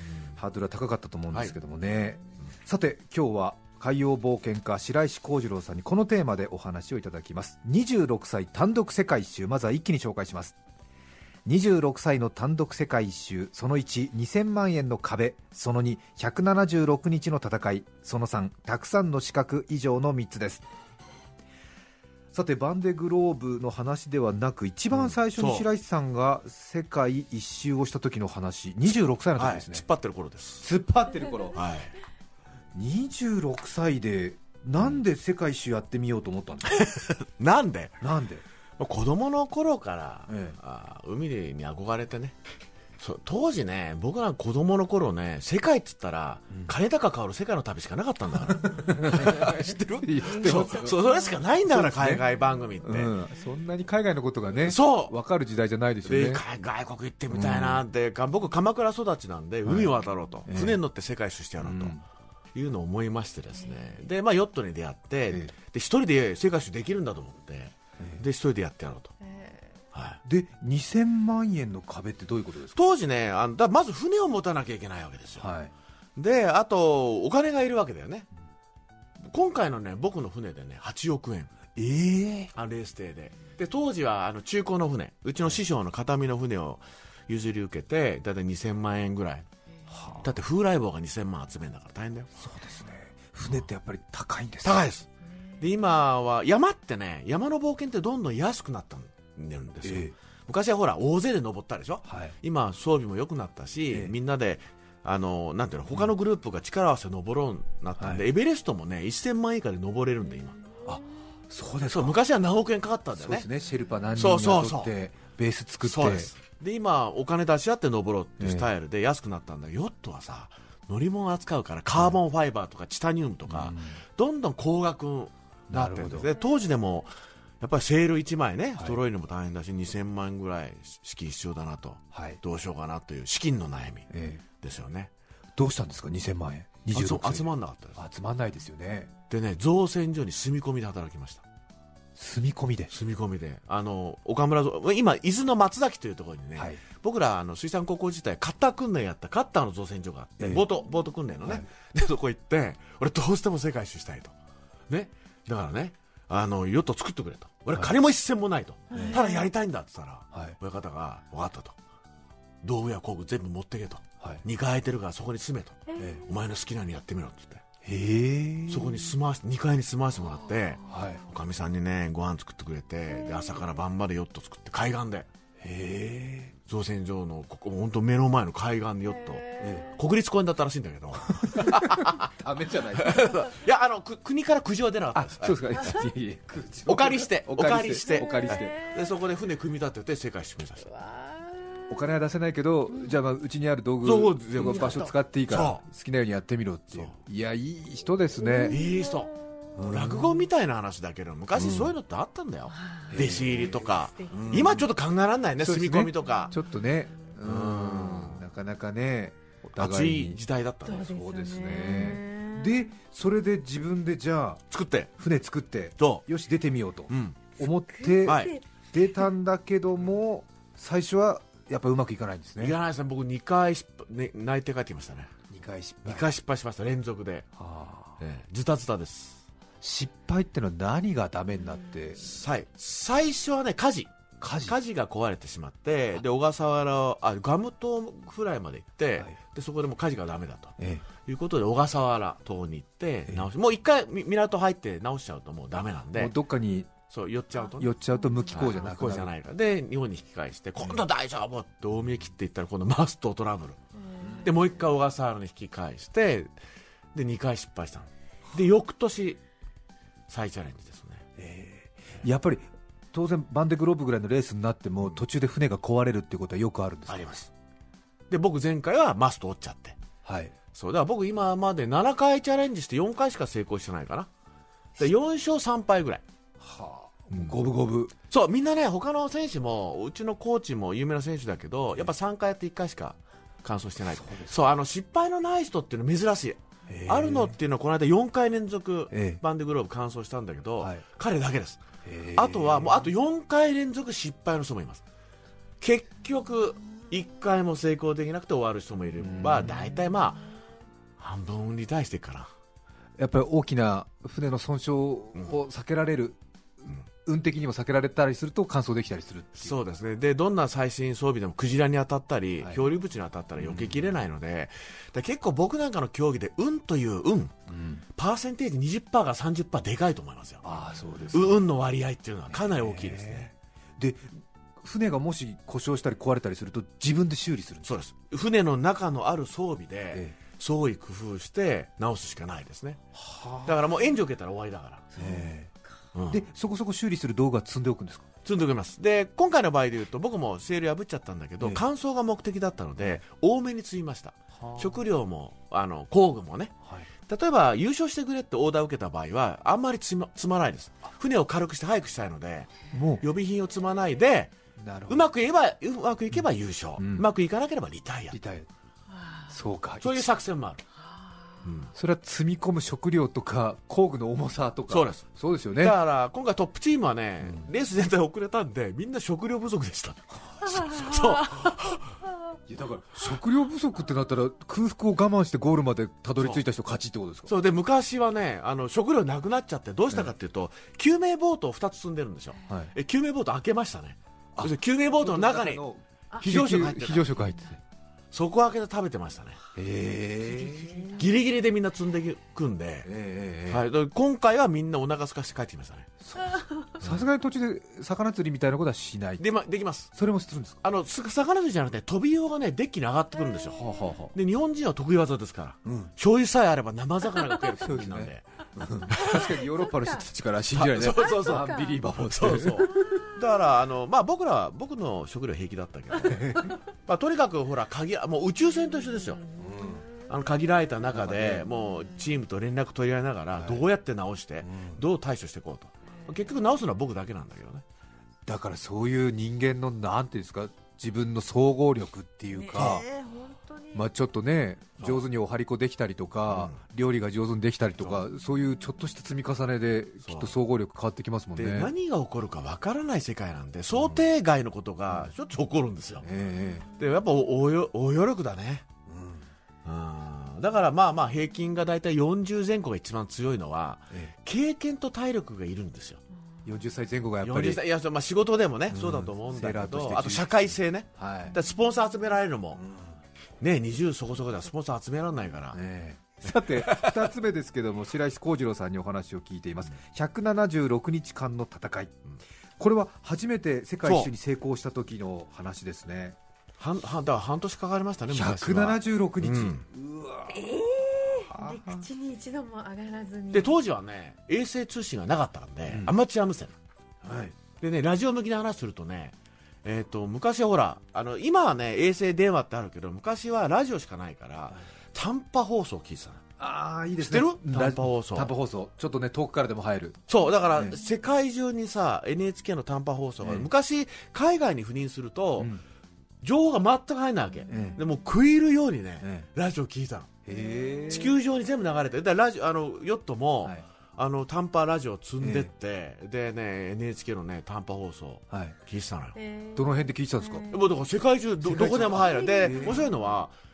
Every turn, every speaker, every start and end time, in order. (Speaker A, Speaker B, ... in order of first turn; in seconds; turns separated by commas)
Speaker A: 0.4-10.5, Speaker A: 11.4-20.6, Speaker A: 22.3-29.8, Speaker B: 24.9-25.7, Speaker B: 29.4-30.6, Speaker A: 30.6-31.6, Speaker B: 31.5-31.9, Speaker A: 32.7-36.9, Speaker B: 36.7-38.0, Speaker A: 38.0-38.4, Speaker B: 38.8-42.4, Speaker A: 40.3-40.6, Speaker B: 43.0-53.1, Speaker A: 48.5-51.0, Speaker C: 50.3-51.1, Speaker A: 51.6-52.2, Speaker A: 52.8-56.4, Speaker B: 54.6-55.1, Speaker B: 56.0-62.0, Speaker A: 57.3-57.8, Speaker A: 59.6-59.9, Speaker A: 60.5-60.8, Speaker A: 61.6-62.0, Speaker B: 62.5-69.1, Speaker C: 63.6-63.9, Speaker C: 69.2-69.7, Speaker B: 69.9-70.2, Speaker A: 70.2-72.8, Speaker B: 72.7-75.5, Speaker A: 75.4-75.7, Speaker B: 76.2-78.3, Speaker B: 79.2-81.5, Speaker A: 81.8-82.5, Speaker B: 82.5-89.5, Speaker A: 89.9-90.3, Speaker B: 90.2-92.3, Speaker A: 92.4-94.8, Speaker B: 94.6-95.1, Speaker B: 95.6-110.6, Speaker A: 99.8-100.1, Speaker A: 102.0-102.3, Speaker A: 103.9-104.1, Speaker A: 108.0-108.2, Speaker A: 110.9-112.2, Speaker B: 111.9-113.5, Speaker A: 113.2-116.3, Speaker B: 114.2-114.9, Speaker B: 115.8-134.1, Speaker A: 118.4-118.7, Speaker A: 123.5-124.0, Speaker A: 125.7-126.3, Speaker A: 132.1-132.4, Speaker A: 134.1-134.4, Speaker B: 134.6-135.1, Speaker A: 135.6-139.1, Speaker B: 136.9-138.0, Speaker B: 139.3-141.4, Speaker A: 142.2-142.9, Speaker B: 142.9-154.3, Speaker A: 146.6-146.8, Speaker A: 150.4-150.6, Speaker B: 154.9-161.8, Speaker C: 158.9-159.5, Speaker A: 158.9-159.2, Speaker B: 162.6-167.6, Speaker C: 165.9-166.2, Speaker A: 167.8-169.1, Speaker B: 168.7-175.3, Speaker A: 170.9-171.2, Speaker A: 175.6-176.5, Speaker B: 176.7-182.3, Speaker C: 179.5-179.9, Speaker A: 179.6-179.9, Speaker A: 181.4-183.5, Speaker B: 182.9-185.6, Speaker A: 185.1-188.8, Speaker B: 186.9-190.9, Speaker C: 188.1-189.0, Speaker C: 190.9-192.0, Speaker A: 191.9-198.8, Speaker B: 194.0-195.8, Speaker C: 194.6-195.1, Speaker C: 198.4-199.7, Speaker B: 198.7-206.6, Speaker A: 199.8-200.4, Speaker A: 201.6-201.9, Speaker C: 202.7-204.8, Speaker A: 203.1-204.9, Speaker A: 205.6-210.4, Speaker C: 206.4-206.8, Speaker B: 207.4-208.4, Speaker B: 209.8-211.1, Speaker C: 210.9-212.8, Speaker A: 211.1-214.6, Speaker B: 214.7-215.1, Speaker A: 215.2-222.8, Speaker B: 216.0-216.2, Speaker B: 217.1-217.4, Speaker C: 217.6-218.6, Speaker B: 218.2-218.5, Speaker B: 222.6-225.3, Speaker A: 225.5-226.2, Speaker B: 226.0-227.5, Speaker A: 227.6-228.2, Speaker B: 228.2-229.4, Speaker A: 229.8-232.2, Speaker B: 232.2-246.3, Speaker A: 234.4-234.8, Speaker A: 240.8-241.0, Speaker A: 246.1-246.9, Speaker B: 247.1-247.9, Speaker A: 247.8-249.3, Speaker C: 248.2-248.8, Speaker B: 248.5-253.8, Speaker C: 254.0-254.5, Speaker A: 254.2-254.5, Speaker B: 254.4-256.5, Speaker B: 257.1-259.4, Speaker B: 260.3-261.2, Speaker A: 261.4-267.4, Speaker B: 267.1-267.5, Speaker B: 268.3-270.0, Speaker A: 270.2-270.5, Speaker B: 270.7-274.3, Speaker B: 275.0-276.2, Speaker A: 276.6-278.1, Speaker B: 278.3-295.0, Speaker A: 284.1-284.5, Speaker A: 286.9-287.6, Speaker A: 289.1-289.4, Speaker A: 292.0-293.1, Speaker B: 295.8-300.4, Speaker A: 299.2-299.9, Speaker B: 301.2-302.5, Speaker A: 303.2-309.8, Speaker B: 309.6-317.5, Speaker A: 313.6-314.0, Speaker A: 317.7-318.0, Speaker B: 318.1-320.7, Speaker A: 320.6-321.6, Speaker B: 321.3-323.5, Speaker A: 322.5-328.0, Speaker B: 327.9-333.0, Speaker A: 333.1-333.8, Speaker B: 333.6-335.1, Speaker C: 335.1-335.4, Speaker A: 335.2-335.7, Speaker B: 336.1-336.4, Speaker A: 336.3-338.3, Speaker B: 338.4-346.8, Speaker A: 344.6-345.0, Speaker B: 347.3-354.5, Speaker A: 352.9-353.2, Speaker A: 354.8-355.3, Speaker B: 355.1-358.4, Speaker A: 357.0-357.3, Speaker A: 358.3-358.7, Speaker C: 359.1-359.6, Speaker A: 359.5-360.3, Speaker B: 360.0-360.8, Speaker B: 361.6-361.9, Speaker A: 361.9-366.0, Speaker B: 364.9-372.1, Speaker A: 372.7-377.5, Speaker B: 377.5-385.8, Speaker A: 382.7-382.9, Speaker A: 384.6-387.8, Speaker B: 386.4-387.3, Speaker B: 388.3-389.6, Speaker A: 389.8-391.1, Speaker C: 390.6-391.2, Speaker B: 391.1-393.1, Speaker A: 393.0-393.9, Speaker B: 393.7-396.1, Speaker A: 396.2-399.4, Speaker B: 399.4-400.1, Speaker A: 400.1-400.8, Speaker B: 400.8-408.4, Speaker A: 403.8-404.3, Speaker A: 405.8-406.1, Speaker A: 407.8-413.2, Speaker B: 409.1-409.5, Speaker C: 409.2-410.2, Speaker B: 410.7-419.4, Speaker C: 411.0-412.0, Speaker C: 413.0-413.4, Speaker A: 416.2-416.7, Speaker C: 419.4-420.0, Speaker A: 419.6-420.0, Speaker B: 420.3-427.8, Speaker A: 421.1-421.7, Speaker A: 423.6-423.8, Speaker A: 424.6-425.0, Speaker A: 428.5-433.0, Speaker C: 432.5-434.0, Speaker B: 432.7-433.0, Speaker A: 433.9-441.9, Speaker B: 436.5-436.8, Speaker B: 440.2-440.5, Speaker B: 441.6-446.2, Speaker A: 446.2-446.9, Speaker B: 447.0-448.9, Speaker A: 449.1-449.5, Speaker B: 449.8-456.2, Speaker A: 456.6-457.8, Speaker B: 457.4-462.8, Speaker A: 458.9-461.6, Speaker A: 462.8-463.1, Speaker B: 463.6-465.8, Speaker A: 465.7-472.2, Speaker B: 466.8-467.2, Speaker A: 472.8-476.4, Speaker B: 474.0-474.3, Speaker B: 476.8-479.8, Speaker A: 478.3-480.7, Speaker C: 480.5-483.8, Speaker A: 481.5-482.1, Speaker B: 483.5-486.7, Speaker A: 485.9-486.1, Speaker A: 487.2-487.5, Speaker B: 487.8-496.4, Speaker A: 496.6-500.2, Speaker B: 497.2-498.5, Speaker B: 500.3-505.7, Speaker A: 500.7-501.0, Speaker A: 503.4-503.7, Speaker A: 505.6-505.8, Speaker B: 506.4-510.3, Speaker A: 507.7-508.0, Speaker C: 507.7-508.0, Speaker A: 509.2-509.5, Speaker A: 510.5-511.3, Speaker C: 510.5-511.2, Speaker B: 511.1-519.4, Speaker A: 515.4-515.7, Speaker A: 518.5-518.8, Speaker C: 519.4-521.0, Speaker A: 519.8-520.7, Speaker B: 520.7-523.5, Speaker A: 521.6-523.0, Speaker C: 522.1-523.3